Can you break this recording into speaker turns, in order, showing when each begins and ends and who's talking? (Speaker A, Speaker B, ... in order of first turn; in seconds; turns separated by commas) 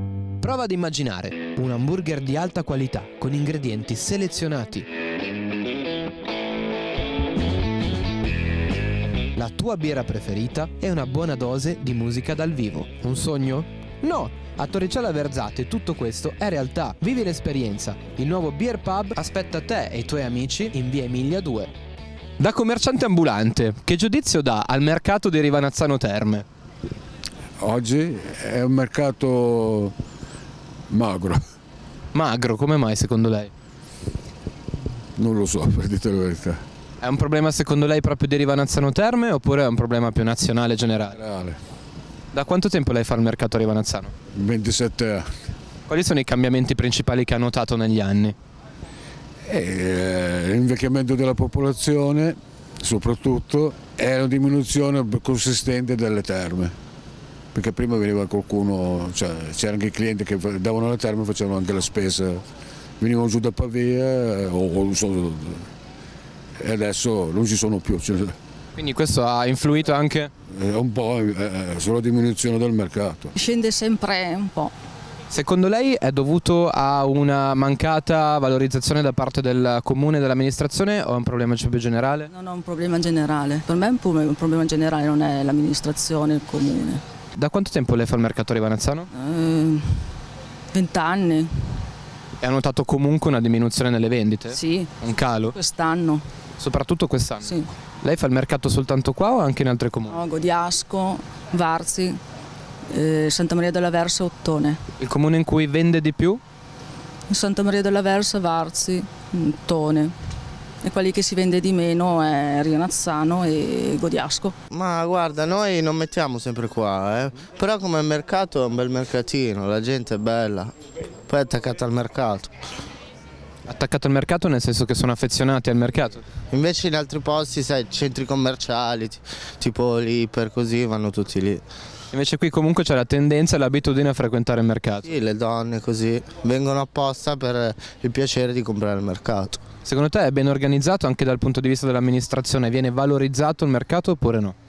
Speaker A: 0.4-4.9, Speaker A: 9.3-21.7, Speaker A: 22.4-26.4, Speaker B: 27.6-29.9, Speaker B: 30.9-31.4, Speaker A: 32.1-33.5, Speaker B: 35.2-36.6, Speaker A: 37.0-41.2, Speaker B: 41.1-41.6, Speaker A: 42.3-44.1, Speaker B: 44.3-45.3, Speaker A: 45.9-48.4, Speaker B: 49.5-56.7, Speaker B: 57.5-62.4, Speaker B: 63.0-65.7, Speaker B: 66.6-68.3, Speaker A: 68.8-70.3, Speaker B: 70.5-73.3, Speaker C: 73.3-74.7, Speaker A: 75.3-82.3, Speaker C: 82.3-87.0, Speaker A: 87.3-89.1, Speaker C: 89.1-90.1, Speaker C: 90.7-91.8, Speaker A: 92.4-95.5, Speaker C: 94.5-95.0, Speaker C: 95.5-96.2, Speaker A: 96.6-100.2, Speaker C: 97.4-97.7, Speaker C: 100.1-102.2, Speaker C: 102.9-104.8, Speaker A: 105.0-106.4, Speaker C: 107.3-110.1, Speaker C: 110.8-114.5, Speaker D: 114.7-120.7, Speaker D: 121.3-122.5, Speaker A: 123.7-126.2, Speaker D: 126.5-131.6, Speaker A: 132.1-135.1, Speaker D: 135.0-139.6, Speaker A: 139.8-144.5